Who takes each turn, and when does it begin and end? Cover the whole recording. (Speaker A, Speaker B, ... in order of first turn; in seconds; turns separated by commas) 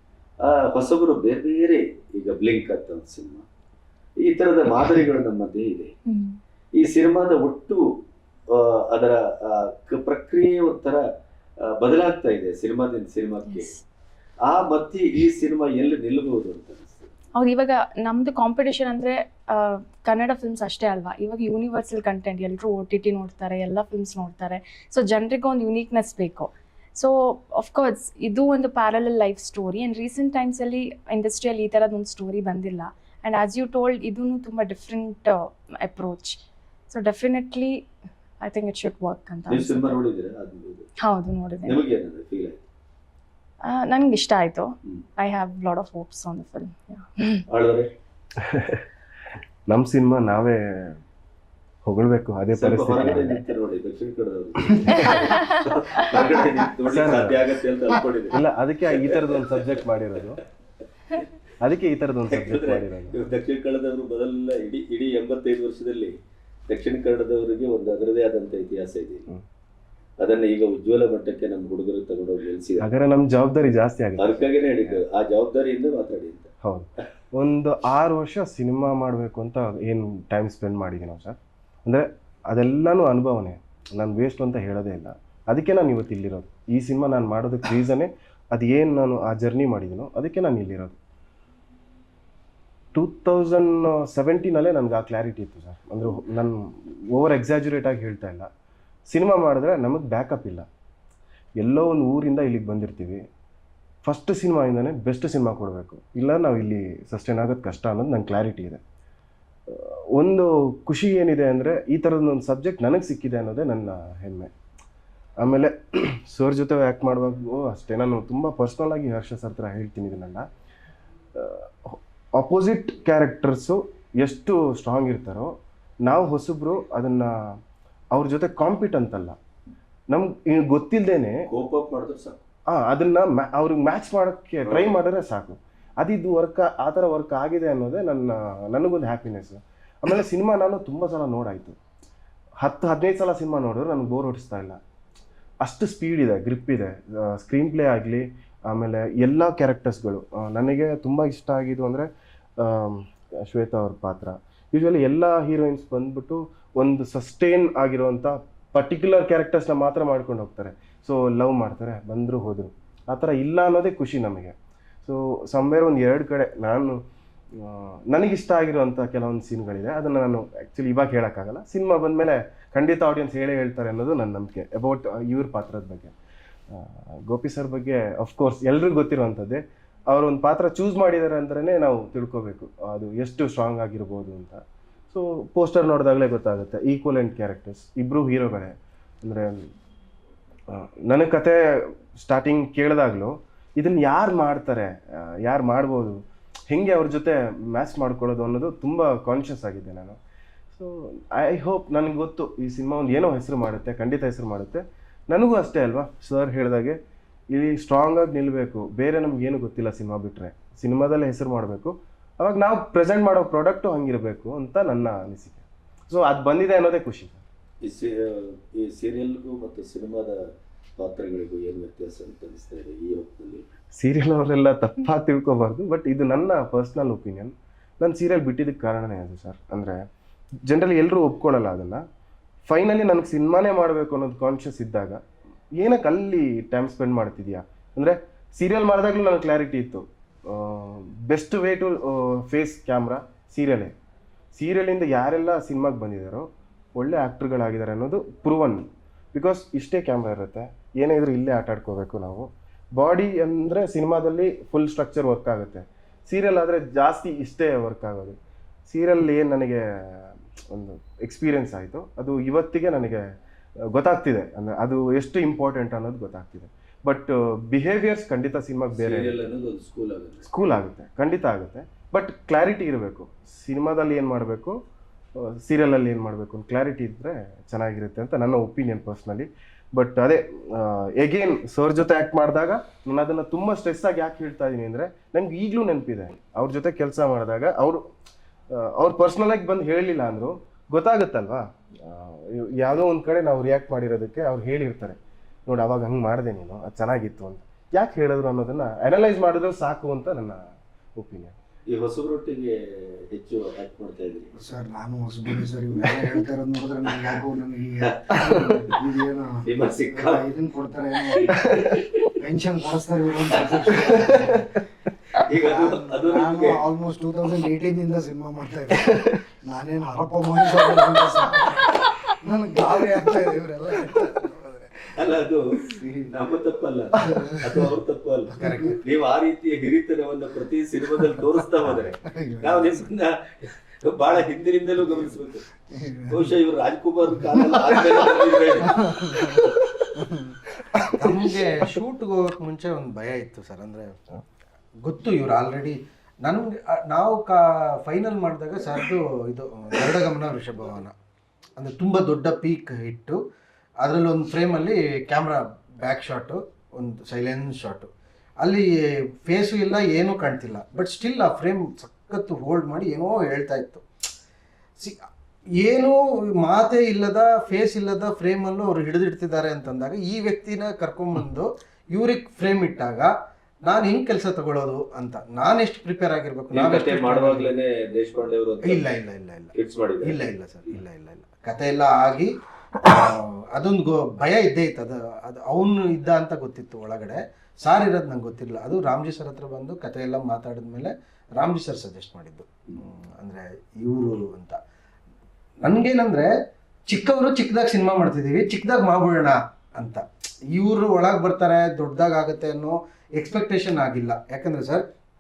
Speaker A: 0.4-3.5, Speaker A: 4.2-5.9, Speaker B: 6.1-6.4, Speaker A: 6.7-8.0, Speaker A: 8.5-11.0, Speaker A: 11.6-13.7, Speaker B: 13.5-13.8, Speaker A: 14.5-17.1, Speaker B: 17.4-36.4, Speaker B: 36.9-37.8, Speaker B: 38.4-40.0, Speaker A: 39.5-40.9, Speaker B: 41.0-41.8, Speaker A: 41.6-42.6, Speaker B: 43.6-47.5, Speaker A: 47.5-47.9, Speaker C: 48.4-48.8, Speaker C: 49.7-51.0, Speaker C: 51.9-53.4, Speaker A: 52.5-60.2, Speaker B: 55.0-56.2, Speaker C: 56.9-57.4, Speaker C: 58.3-60.4, Speaker C: 61.6-63.3, Speaker A: 62.3-66.2, Speaker A: 66.7-69.3, Speaker A: 70.2-72.9, Speaker C: 72.8-74.5, Speaker A: 74.2-76.5, Speaker C: 76.6-91.0, Speaker C: 92.9-98.5, Speaker C: 99.1-100.7, Speaker C: 101.6-103.2, Speaker C: 104.0-108.8, Speaker C: 109.7-114.5, Speaker C: 115.4-120.5, Speaker C: 121.4-127.6, Speaker C: 128.1-129.4, Speaker C: 130.1-131.4, Speaker A: 131.5-132.4, Speaker C: 132.7-141.8, Speaker A: 134.6-134.9, Speaker C: 142.6-144.8, Speaker C: 145.6-167.0, Speaker C: 167.6-176.1, Speaker C: 176.7-189.7, Speaker C: 190.7-200.2, Speaker C: 200.7-207.0, Speaker C: 207.5-217.4, Speaker A: 217.8-220.4, Speaker A: 221.0-223.7, Speaker C: 224.0-230.1, Speaker C: 230.7-232.1, Speaker C: 232.7-235.2, Speaker C: 235.8-243.9, Speaker C: 244.6-258.4, Speaker C: 258.9-263.3, Speaker C: 263.9-269.5, Speaker A: 268.9-270.5, Speaker C: 270.4-274.8, Speaker C: 275.4-288.1, Speaker C: 288.7-301.5, Speaker A: 301.9-304.5, Speaker D: 304.6-314.8, Speaker A: 308.0-308.8, Speaker A: 309.7-310.4, Speaker A: 311.4-312.3, Speaker A: 313.6-314.6, Speaker A: 315.4-316.8, Speaker D: 315.5-326.3, Speaker A: 325.2-325.7, Speaker A: 326.3-335.6, Speaker D: 327.2-327.6, Speaker E: 328.6-329.0, Speaker D: 328.6-328.9, Speaker D: 332.0-333.1, Speaker D: 335.9-336.5, Speaker A: 336.3-340.1, Speaker D: 337.5-341.4, Speaker E: 341.1-344.1, Speaker E: 345.0-351.1, Speaker E: 351.8-353.4, Speaker E: 354.0-358.1, Speaker E: 358.6-364.0, Speaker E: 365.8-373.3, Speaker E: 373.9-377.7, Speaker A: 376.7-379.0, Speaker E: 378.8-379.7, Speaker A: 379.7-380.4, Speaker E: 380.2-394.8, Speaker E: 395.8-396.5, Speaker E: 397.1-405.0